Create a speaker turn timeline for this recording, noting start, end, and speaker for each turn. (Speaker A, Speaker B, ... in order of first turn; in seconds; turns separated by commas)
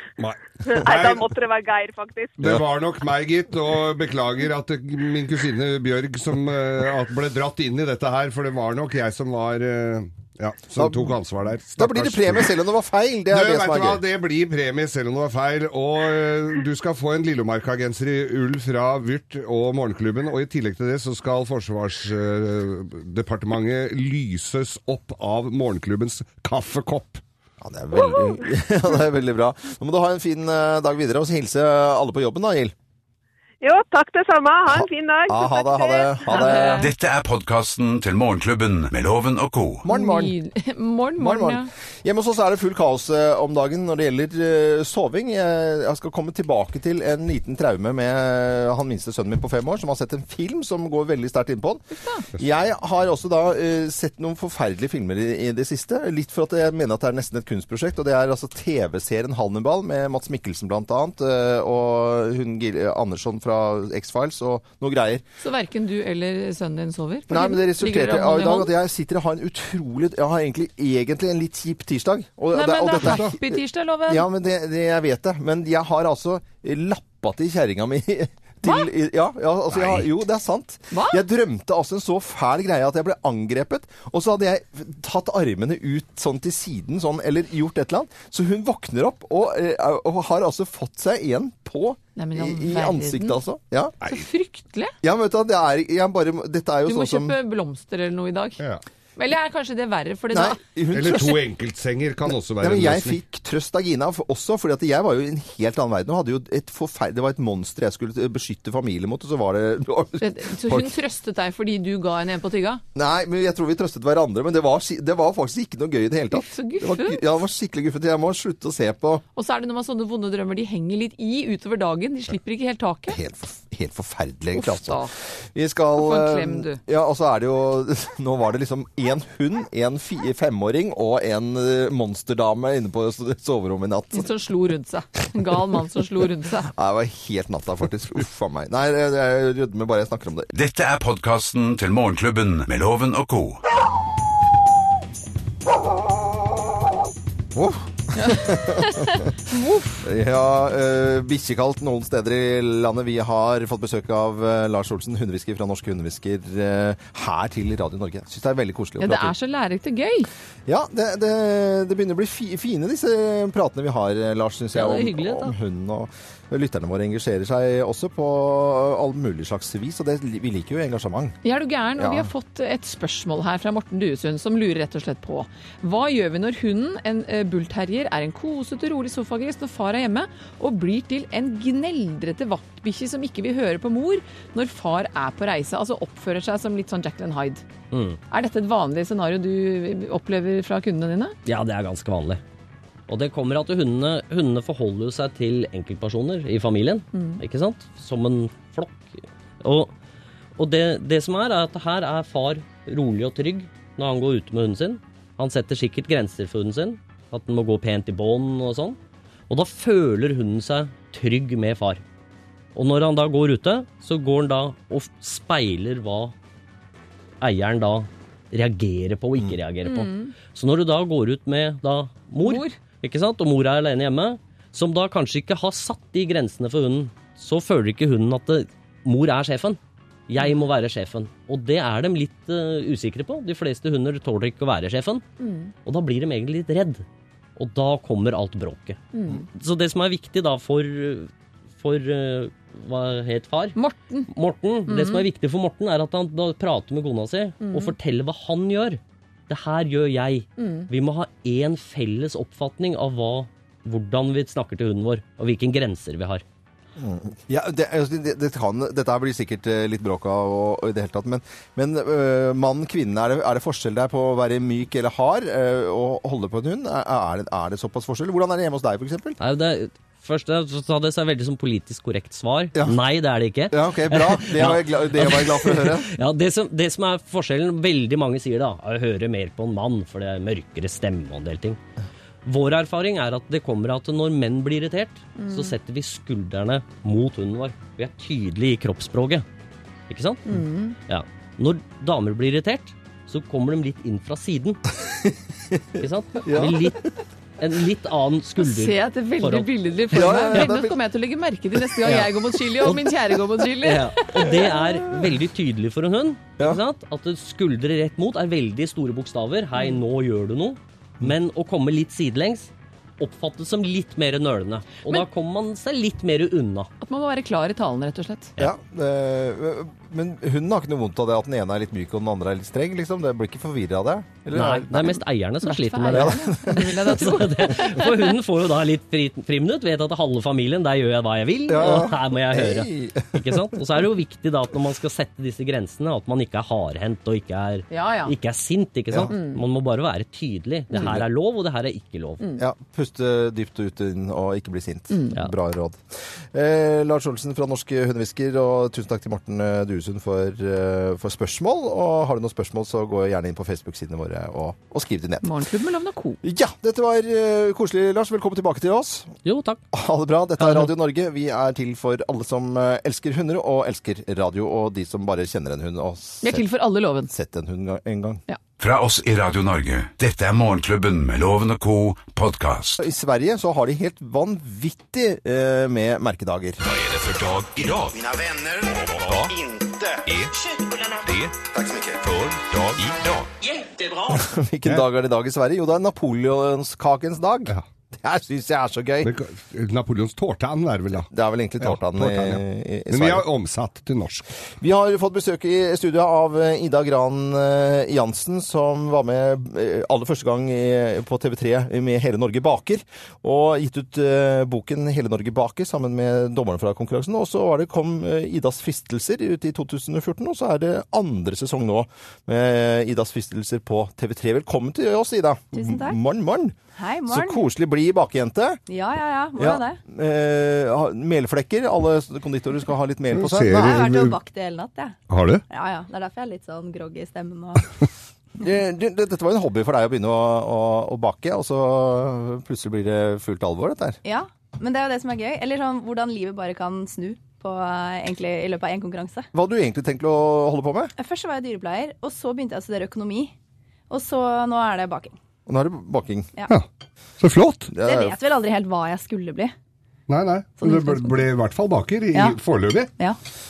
Speaker A: 0.2-1.3, Speaker B: 0.6-2.4, Speaker A: 2.4-12.5, Speaker C: 10.8-11.2, Speaker C: 11.8-14.0, Speaker A: 13.3-27.2, Speaker C: 27.6-32.7, Speaker B: 28.0-28.4, Speaker B: 33.6-36.7, Speaker C: 34.7-36.9, Speaker D: 36.3-36.9, Speaker E: 36.8-39.9, Speaker C: 39.8-40.3, Speaker D: 39.9-41.7, Speaker C: 41.2-51.8, Speaker D: 51.9-52.2, Speaker C: 52.3-65.2, Speaker D: 65.4-68.7, Speaker C: 67.3-93.9, Speaker D: 72.5-74.2, Speaker A: 73.0-73.3, Speaker A: 79.7-80.0, Speaker D: 80.9-81.2, Speaker D: 92.2-93.4, Speaker D: 94.0-94.9, Speaker C: 95.0-97.3, Speaker D: 96.8-98.6, Speaker D: 99.2-100.6, Speaker C: 100.3-101.4, Speaker A: 100.9-103.2, Speaker C: 102.3-110.9, Speaker D: 110.2-112.8, Speaker C: 112.9-119.2, Speaker D: 116.3-117.2, Speaker D: 119.3-123.2, Speaker C: 123.1-134.3, Speaker D: 124.5-125.1, Speaker D: 126.0-126.8, Speaker D: 134.1-136.7, Speaker C: 136.7-140.5, Speaker E: 140.5-143.6, Speaker C: 147.5-149.3, Speaker D: 148.2-150.1, Speaker C: 150.0-159.3, Speaker D: 159.0-160.3, Speaker C: 160.7-171.4, Speaker F: 164.8-165.1, Speaker D: 164.8-165.4, Speaker D: 171.4-187.6, Speaker C: 171.9-172.3, Speaker F: 187.9-188.2, Speaker D: 188.3-191.4, Speaker F: 191.4-192.4, Speaker F: 193.1-199.9, Speaker D: 197.1-197.4, Speaker F: 200.6-209.0, Speaker F: 209.5-212.0, Speaker F: 212.7-216.3, Speaker F: 217.4-235.2, Speaker D: 219.8-220.3, Speaker D: 222.4-222.8, Speaker D: 235.4-235.7, Speaker F: 235.8-237.0, Speaker F: 237.6-243.8, Speaker D: 239.1-239.5, Speaker D: 243.7-244.3, Speaker F: 244.3-256.4, Speaker D: 244.9-245.2, Speaker D: 247.6-247.9, Speaker D: 250.6-250.9, Speaker C: 257.0-269.4, Speaker F: 269.4-281.8, Speaker C: 273.7-276.1, Speaker F: 282.4-289.4, Speaker D: 285.4-285.7, Speaker F: 290.1-290.5, Speaker D: 290.4-291.0, Speaker F: 291.1-294.8, Speaker C: 295.1-297.0, Speaker F: 296.0-297.0, Speaker F: 297.6-300.7, Speaker D: 298.6-304.7, Speaker C: 300.1-301.0, Speaker C: 302.0-303.4, Speaker F: 303.8-316.9, Speaker D: 317.0-318.5, Speaker C: 318.6-325.2, Speaker F: 324.5-342.4, Speaker D: 325.6-328.3, Speaker C: 326.1-327.0, Speaker C: 331.7-333.8, Speaker D: 337.9-338.3, Speaker D: 339.3-339.6, Speaker D: 340.9-341.2, Speaker C: 340.9-341.2, Speaker C: 342.6-346.0, Speaker D: 345.1-345.4, Speaker C: 346.5-355.6, Speaker D: 355.4-356.4, Speaker C: 356.4-359.3, Speaker F: 359.4-359.8, Speaker C: 359.9-366.7, Speaker D: 366.4-367.3, Speaker C: 367.2-368.4, Speaker E: 368.8-373.0, Speaker C: 373.0-376.8, Speaker E: 376.8-380.5, Speaker E: 381.2-383.5, Speaker C: 384.3-389.3, Speaker A: 389.2-391.3, Speaker C: 391.1-393.4, Speaker A: 391.8-394.5, Speaker C: 394.8-416.7, Speaker G: 415.7-416.2, Speaker G: 416.9-417.6, Speaker C: 417.3-418.8, Speaker G: 418.9-420.0, Speaker C: 419.6-424.0, Speaker A: 423.3-424.4, Speaker G: 423.7-425.2, Speaker A: 425.3-425.6, Speaker G: 425.7-427.9, Speaker C: 428.6-434.2, Speaker G: 434.2-439.5, Speaker C: 439.5-441.1, Speaker G: 441.2-443.5, Speaker G: 444.1-445.3, Speaker C: 445.7-446.5, Speaker A: 447.4-447.9, Speaker C: 447.9-448.3, Speaker G: 448.0-449.7, Speaker A: 450.3-453.1, Speaker G: 450.8-451.4, Speaker G: 452.3-452.6